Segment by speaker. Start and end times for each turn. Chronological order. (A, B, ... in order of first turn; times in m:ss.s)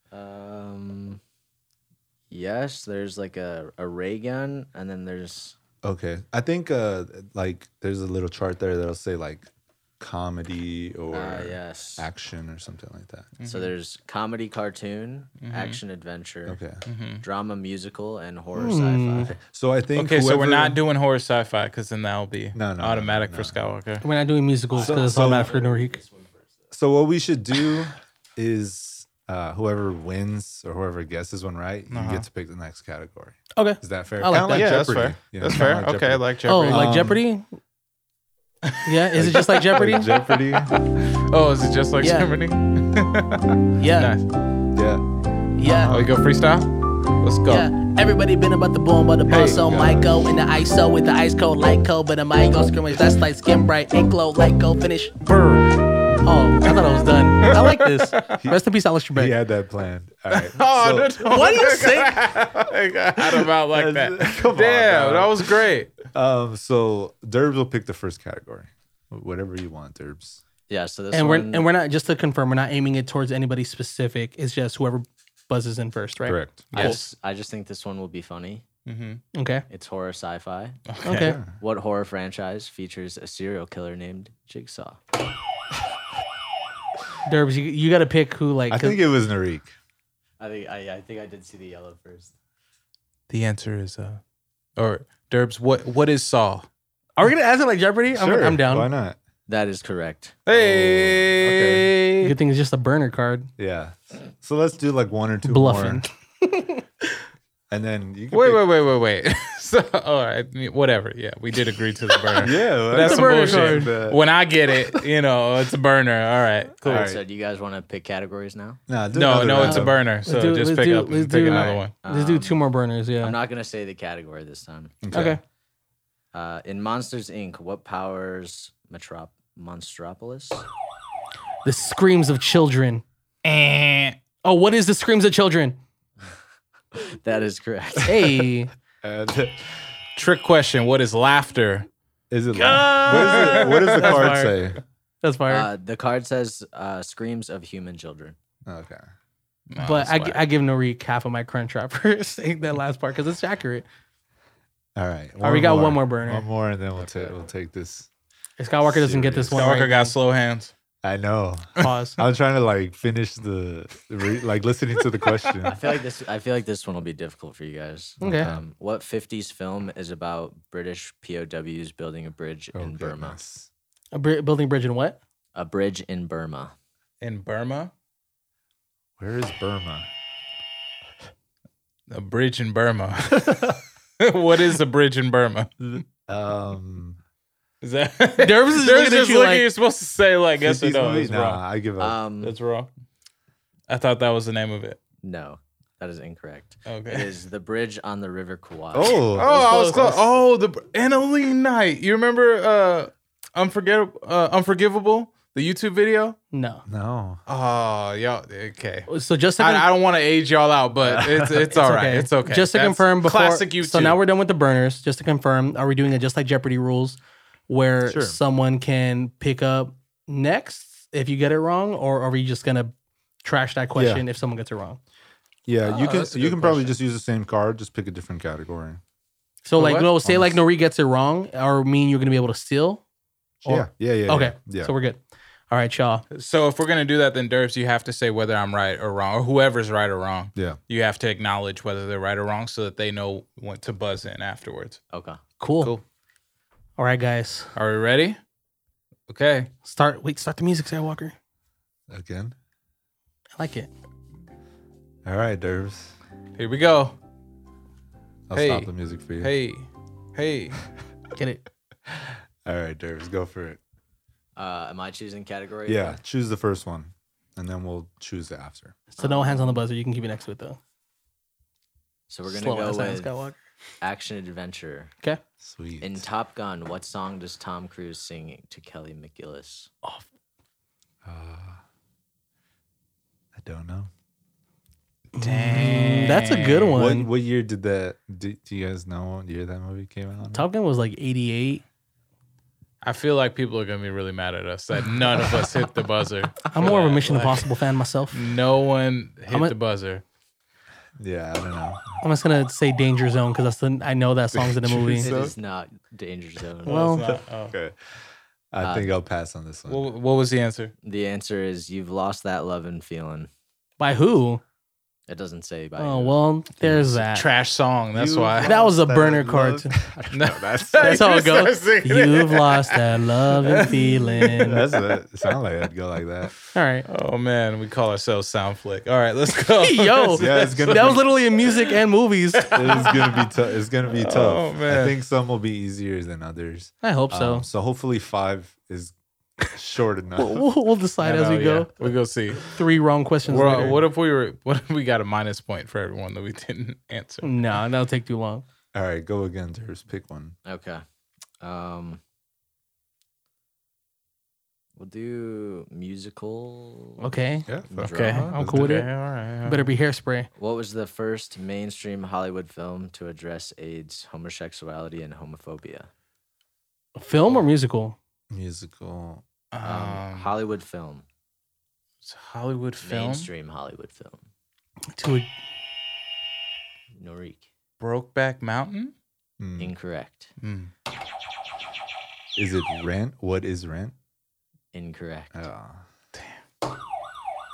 0:00.1-0:01.2 A
0:02.3-0:05.6 A
0:05.8-0:09.5 B
0:10.0-0:13.4 B
0:11.1-0:12.1 A
0:13.4-0:13.7 C
0:13.4-0:16.6 A
0:15.4-0:15.8 C
0:16.5-0:16.8 B
0:16.9-0:17.2 C
0:17.2-0:19.3 A
0:18.5-0:19.3 D
0:19.2-0:20.8 B
0:20.0-0:24.0 C
0:22.5-0:23.6 B
0:24.0-0:26.0 D
0:24.7-0:26.5 A
0:24.8-0:25.5 B
0:26.7-0:37.2 B
0:31.9-0:32.3 C
0:33.6-0:34.7 D
0:34.4-0:36.9 C
0:36.5-0:37.6 D
0:38.8-0:40.1 D
0:39.2-0:40.8 B
0:39.4-0:44.3 C
0:42.0-0:42.3 D
0:43.8-0:44.1 D
0:44.7-0:45.0 B
0:45.6-0:46.0 D
0:45.6-0:46.2 B
0:45.9-0:47.7 C
0:47.5-0:55.2 D
0:49.3-0:49.6 C
0:49.3-0:50.2 B
0:55.2-0:55.7 C
0:56.2-0:59.4 D
0:57.4-0:58.3 C
0:59.1-1:01.2 B
1:00.3-1:06.1 C
1:01.2-1:02.3 D
1:03.2-1:10.4 B
1:10.7-1:11.7 A
1:11.1-1:16.4 D
1:16.2-1:17.0 B
1:16.7-1:17.1 C
1:16.7-1:18.6 A
1:18.9-1:19.2 C
1:19.3-1:19.6 D
1:19.7-1:20.8 A
1:20.9-1:21.4 C
1:21.0-1:21.4 D
1:21.1-1:21.5 B
1:21.5-1:25.0 A
1:27.2-1:29.0 D
1:28.7-1:29.8 B
1:30.4-1:32.3 A
1:33.3-1:34.2 C
1:34.8-1:36.7 C
1:37.2-1:38.9 D
1:38.1-1:39.2 B
1:39.5-1:40.4 A
1:40.5-1:42.4 C
1:40.5-1:41.9 B
1:42.2-1:43.5 D
1:43.6-1:46.0 B
1:45.4-1:46.9 D
1:47.7-1:48.6 B
1:48.3-1:57.1 C
1:52.4-1:55.0 B
1:52.9-1:54.0 D
1:56.8-1:57.2 B
1:56.9-1:58.8 A
1:58.9-2:00.0 B
1:59.1-2:01.9 C
1:59.6-2:03.4 D
2:02.0-2:02.6 A
2:03.2-2:05.0 A
2:05.0-2:05.4 B
2:05.1-2:05.4 D
2:06.3-2:10.6 A
2:11.6-2:13.0 D
2:13.4-2:14.2 C
2:14.4-2:15.8 D
2:16.9-2:18.5 A
2:18.0-2:18.7 D
2:19.0-2:19.8 B
2:20.2-2:21.9 C
2:22.3-2:24.8 B
2:22.5-2:24.6 D
2:23.1-2:24.4 C
2:25.2-2:25.7 D
2:25.5-2:28.4 A
2:28.6-2:29.1 B
2:29.7-2:30.4 C
2:29.8-2:33.9 D
2:35.0-2:38.1 B
2:35.4-2:36.4 D
2:37.0-2:37.4 A
2:38.6-2:40.1 D
2:38.8-2:39.8 B
2:39.6-2:40.7 C
2:41.0-2:45.8 B
2:41.8-2:42.2 D
2:45.6-2:53.4 A
2:48.2-2:48.6 B
2:48.2-2:48.5 D
2:52.7-2:53.7 B
2:54.1-2:55.2 D
2:55.5-2:56.7 A
2:57.2-2:57.9 C
2:59.2-3:00.1 B
3:02.1-3:05.7 C
3:05.8-3:07.2 B
3:07.8-3:11.6 C
3:08.4-3:09.7 D
3:10.6-3:12.2 B
3:12.0-3:12.6 A
3:12.4-3:12.9 C
3:13.9-3:15.0 C
3:15.2-3:20.2 A
3:16.9-3:17.3 C
3:18.9-3:20.3 B
3:19.2-3:26.4 C
3:26.5-3:26.8 D
3:26.9-3:27.4 B
3:27.5-3:29.1 C
3:29.1-3:29.9 D
3:29.6-3:34.2 C
3:31.0-3:31.7 B
3:31.7-3:42.9 D
3:38.0-3:38.4 B
3:43.4-3:45.0 D
3:44.0-3:44.2 B
3:45.7-3:49.0 B
3:45.9-3:47.0 C
3:49.6-3:53.0 D
3:49.8-3:50.1 C
3:50.2-3:50.6 B
3:53.6-3:54.9 B
3:53.7-3:56.2 D
3:56.3-4:05.0 C
4:05.1-4:05.4 A
4:05.6-4:05.9 D
4:07.0-4:07.7 D
4:07.8-4:08.4 C
4:09.3-4:09.7 C
4:09.8-4:11.4 D
4:12.1-4:12.6 B
4:13.6-4:13.9 D
4:15.2-4:16.1 B
4:16.6-4:17.2 C
4:18.5-4:19.5 B
4:18.5-4:20.8 C
4:21.4-4:21.6 D
4:22.1-4:23.8 B
4:24.6-4:26.2 A
4:25.9-4:29.0 B
4:29.2-4:30.8 D
4:29.2-4:29.8 A
4:32.3-4:33.4 A
4:32.5-4:33.6 D
4:34.0-4:35.1 A
4:35.6-4:36.3 B
4:36.0-4:39.9 A
4:41.2-4:41.8 B
4:43.5-4:44.1 B
4:45.4-4:47.0 C
4:45.4-4:47.3 D
4:47.0-4:50.7 B
4:50.5-4:51.8 D
4:53.0-4:57.7 C
4:56.6-4:58.4 D
4:58.3-5:00.2 C
4:59.5-4:59.7 D
5:01.2-5:02.2 B
5:02.2-5:05.3 D
5:04.5-5:05.6 B
5:05.2-5:07.1 A
5:06.8-5:07.3 D
5:06.9-5:07.8 C
5:07.2-5:08.0 B
5:08.7-5:10.1 B
5:08.8-5:09.1 A
5:09.9-5:10.9 C
5:11.0-5:13.5 A
5:14.0-5:14.6 D
5:15.3-5:16.4 A
5:16.0-5:17.5 D
5:16.8-5:17.2 B
5:17.3-5:18.7 C
5:18.1-5:21.3 B
5:18.6-5:20.0 D
5:20.3-5:25.0 C
5:21.0-5:24.8 D
5:24.6-5:26.5 B
5:26.7-5:27.1 D
5:27.1-5:31.9 C
5:29.7-5:32.8 D
5:30.3-5:31.3 B
5:32.6-5:33.5 C
5:32.7-5:39.1 B
5:34.1-5:35.2 C
5:37.0-5:37.7 D
5:39.7-5:40.7 B
5:40.4-5:41.9 D
5:41.2-5:42.7 C
5:42.6-5:44.0 D
5:43.5-5:47.5 C
5:43.6-5:44.0 B
5:47.4-5:48.6 D
5:48.9-5:50.6 B
5:50.6-5:51.0 A
5:51.6-5:52.2 A
5:55.0-5:57.4 A
5:57.2-5:57.7 D
5:57.7-5:59.0 B
5:57.9-5:58.6 A
5:58.1-5:59.9 C
5:58.3-5:59.1 D
5:59.6-6:00.5 D
6:00.6-6:06.1 A
6:07.2-6:08.2 D
6:08.5-6:09.4 B
6:09.7-6:10.5 C
6:09.8-6:11.3 A
6:12.2-6:13.5 C
6:13.0-6:14.5 A
6:15.1-6:15.5 D
6:17.2-6:17.7 A
6:18.0-6:19.1 C
6:19.6-6:19.9 B
6:19.8-6:20.5 A
6:20.6-6:20.9 C
6:22.6-6:24.1 B
6:24.9-6:25.6 A
6:25.5-6:26.0 B